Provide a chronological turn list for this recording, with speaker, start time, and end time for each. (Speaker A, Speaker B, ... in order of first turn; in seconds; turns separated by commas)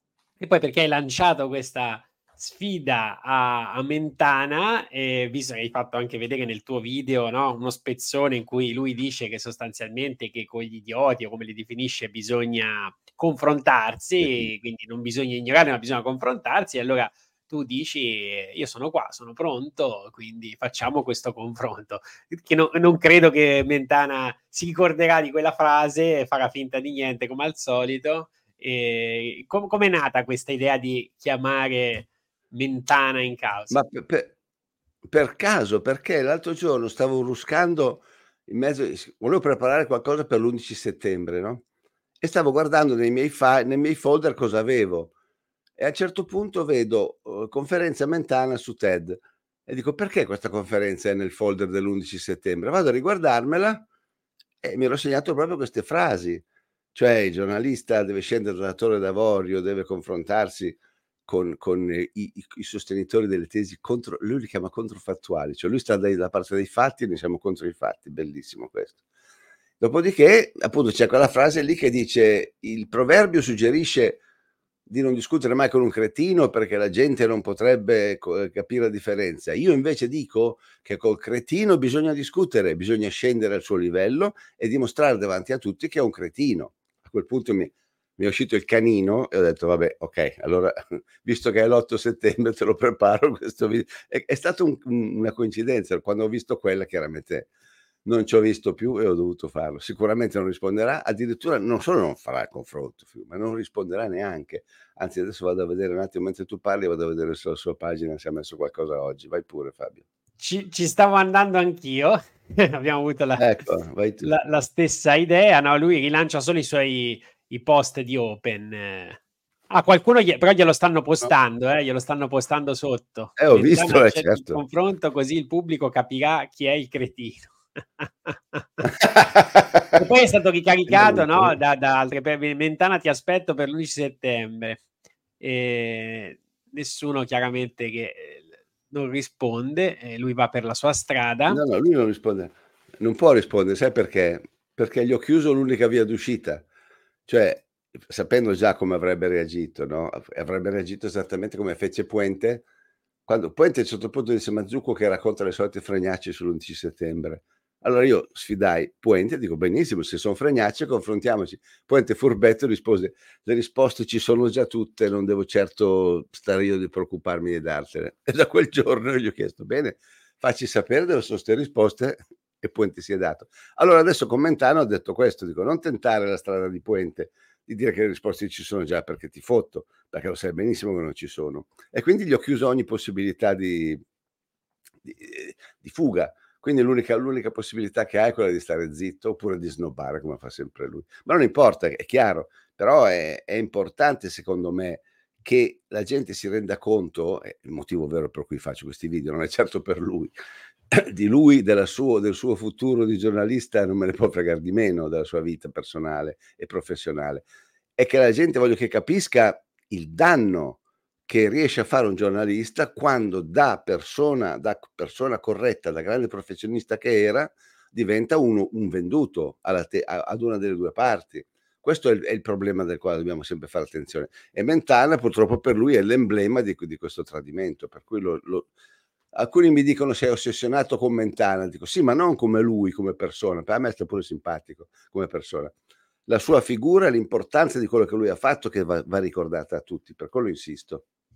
Speaker A: 0.4-33.8, Speaker B: 14.2-14.5, Speaker B: 33.7-34.3, Speaker B: 35.0-41.6, Speaker B: 42.2-45.1, Speaker B: 45.8-53.8, Speaker B: 54.6-56.4, Speaker B: 56.9-69.0, Speaker B: 69.8-74.2, Speaker B: 74.9-97.5, Speaker B: 98.0-110.0, Speaker A: 110.4-113.5, Speaker B: 113.4-114.3, Speaker A: 114.2-119.2, Speaker A: 119.7-129.1, Speaker B: 123.4-124.6, Speaker B: 129.0-130.0, Speaker A: 129.9-134.8, Speaker B: 130.9-131.6, Speaker A: 135.4-141.6, Speaker B: 141.5-146.6, Speaker B: 147.3-152.6, Speaker B: 153.3-184.0, Speaker B: 185.0-200.3, Speaker B: 200.9-207.4, Speaker B: 208.0-228.7, Speaker B: 229.3-235.7, Speaker B: 236.3-241.0